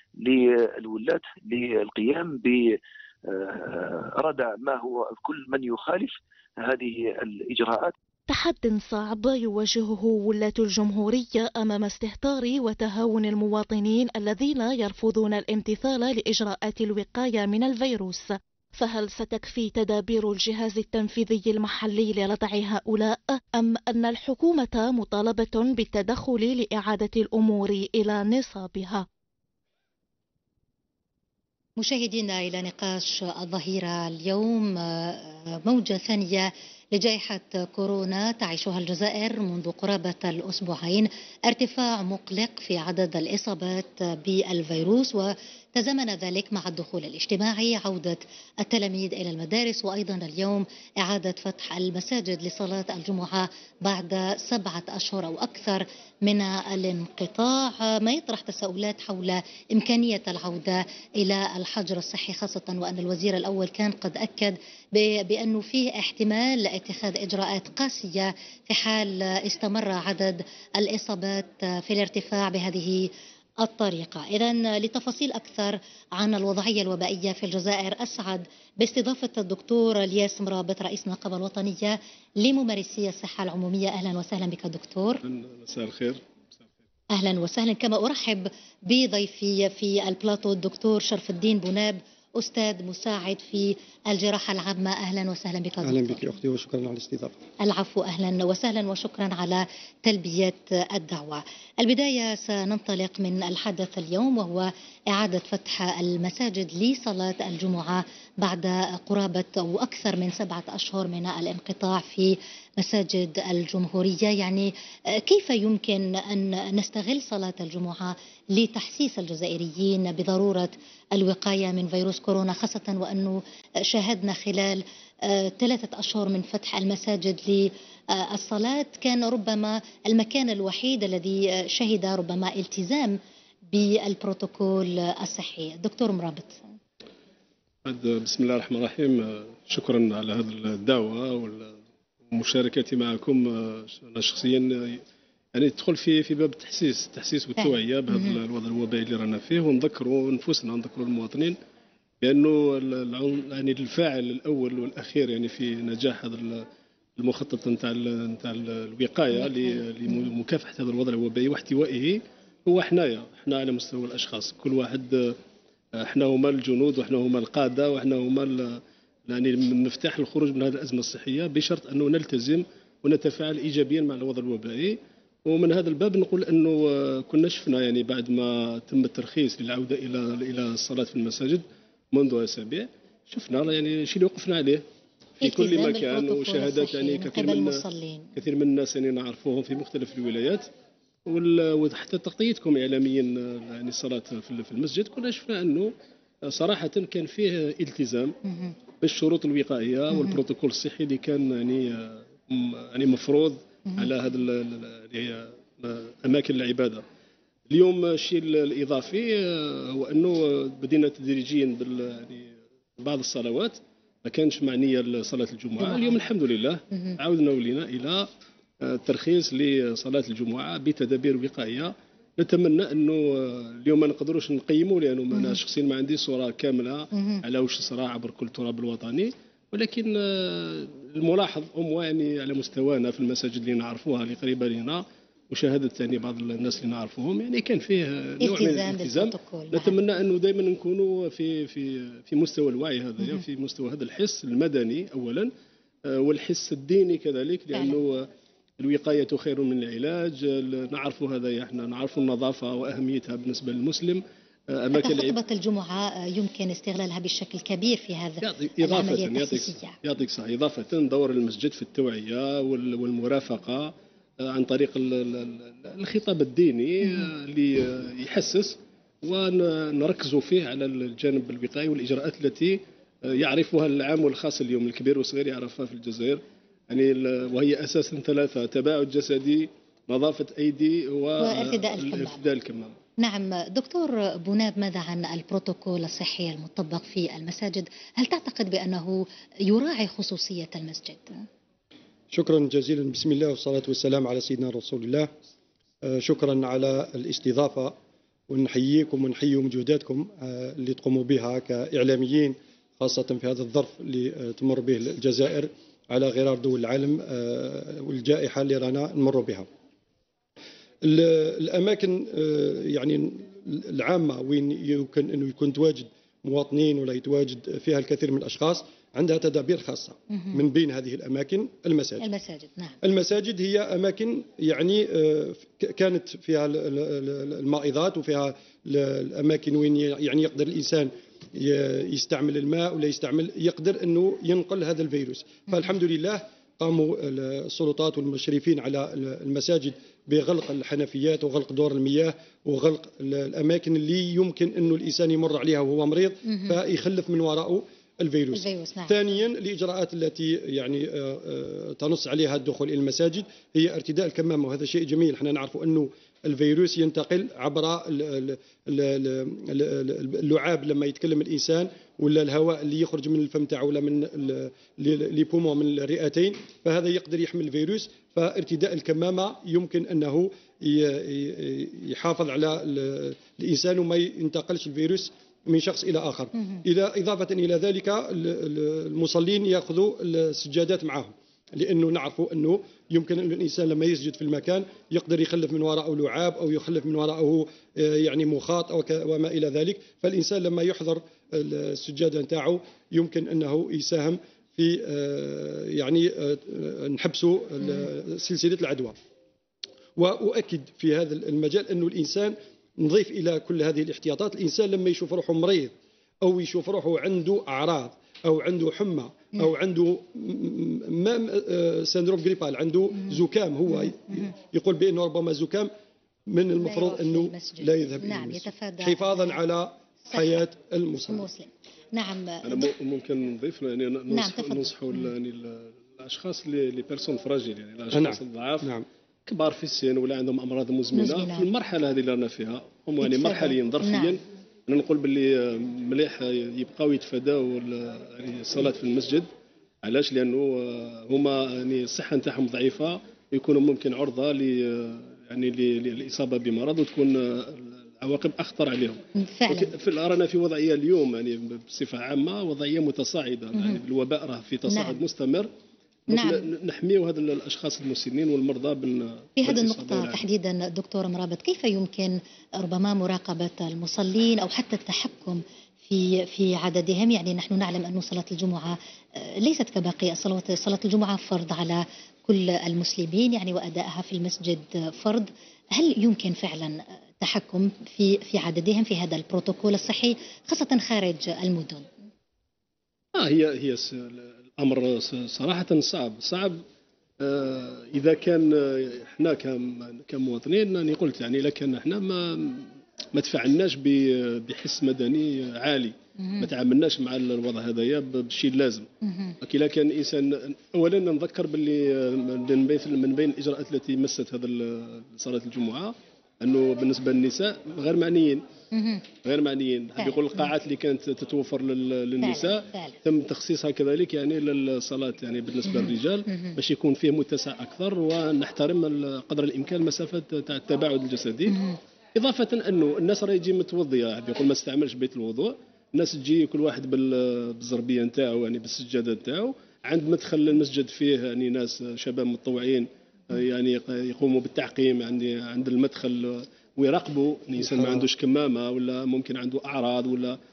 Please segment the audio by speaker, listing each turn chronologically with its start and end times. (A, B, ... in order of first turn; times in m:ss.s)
0:00.2-0:02.7 A
0:03.3-0:07.9 A
0:08.3-0:29.0 B
0:31.8-1:13.1 C
1:13.6-1:25.2 C
1:25.2-1:26.2 D
1:27.1-1:36.3 C
1:35.8-1:37.3 E
1:37.6-2:13.2 C
2:13.7-2:16.6 C
2:17.8-2:21.8 D
2:22.3-2:25.0 D
2:25.5-2:31.5 D
2:27.6-2:28.4 C
2:32.2-2:36.6 D
2:37.2-2:45.4 D
2:46.0-3:04.8 D
3:05.4-3:08.3 C
3:05.4-3:07.8 D
3:08.4-3:10.6 D
3:11.3-3:15.9 D
3:16.4-3:18.4 D
3:19.0-3:27.0 D
3:27.7-3:38.3 D
3:35.8-3:36.2 C
3:38.8-4:05.5 D
3:47.1-3:47.4 C
3:58.4-4:00.0 C
4:06.0-4:08.3 D
4:07.7-4:08.0 C
4:08.8-4:15.3 D
4:14.9-4:20.0 C
4:18.4-4:43.0 D
4:41.4-4:42.5 C
4:43.2-4:51.4 C
4:52.3-4:55.3 E
4:56.0-4:57.9 E
4:58.5-5:09.6 E
5:11.0-5:22.2 E
5:22.2-5:23.0 C
5:23.0-6:39.2 E
5:46.5-5:46.7 C
5:48.5-5:49.2 C
6:40.2-6:55.9 E
6:56.5-7:01.5 E
6:56.8-6:59.6 C
7:00.3-7:00.6 C
7:01.3-7:02.9 C
7:02.6-7:08.9 D
7:04.3-7:04.9 C
7:08.1-7:09.0 E
7:09.5-7:19.4 D
7:11.1-7:11.7 C
7:13.2-7:14.4 C
7:20.0-7:35.7 D
7:29.4-7:29.9 C
7:34.9-7:35.2 C
7:36.3-7:36.7 C
7:36.3-7:40.4 D
7:39.6-8:02.0 C
8:03.3-8:06.8 D
8:07.4-8:19.1 D
8:19.2-8:19.6 C
8:19.6-8:28.6 D
8:28.9-8:29.2 C
8:29.4-8:41.8 D
8:30.2-8:30.7 C
8:32.4-8:33.2 C
8:35.9-8:36.7 C
8:41.7-8:42.0 C
8:42.3-9:00.6 D
8:57.9-8:58.2 E